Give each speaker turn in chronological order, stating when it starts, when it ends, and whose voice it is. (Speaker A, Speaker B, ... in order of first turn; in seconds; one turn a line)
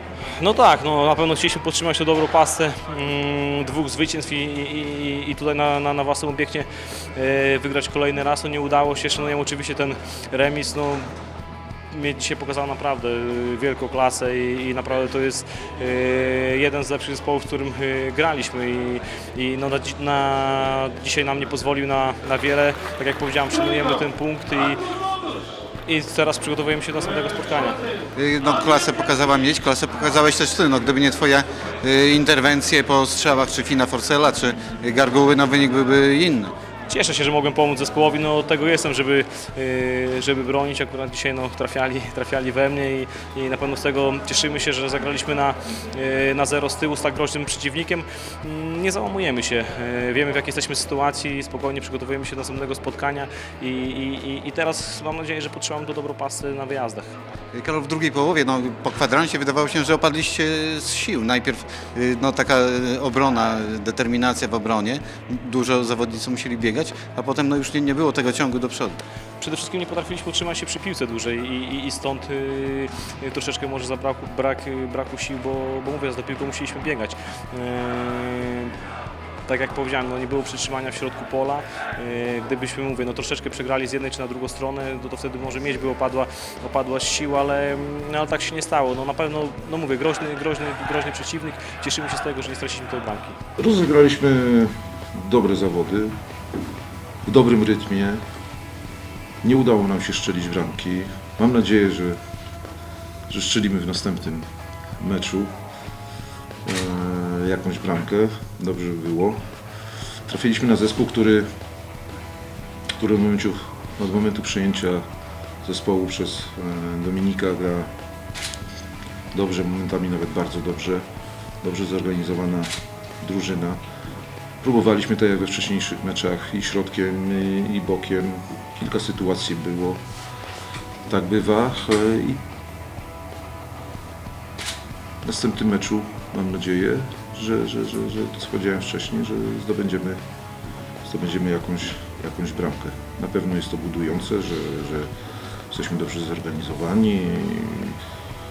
Speaker A: 0.4-11.1
Speaker A: 11.9-24.8
Speaker A: 25.9-27.8
Speaker B: 28.1-36.5
Speaker A: 36.9-57.1
Speaker B: 57.5-69.0
Speaker A: 69.4-78.7
Speaker A: 79.5-93.4
Speaker C: 93.6-96.2
Speaker C: 97.2-98.2
Speaker C: 99.4-102.2
Speaker C: 103.3-104.5
Speaker C: 105.0-105.5
Speaker C: 106.6-109.5
Speaker C: 110.2-111.5
Speaker C: 113.0-115.0
Speaker C: 115.6-117.9
Speaker C: 119.3-121.0
Speaker C: 121.6-123.8
Speaker C: 124.6-130.0
Speaker C: 131.1-132.4
Speaker C: 135.2-140.2
Speaker C: 141.0-145.1
Speaker C: 145.7-148.0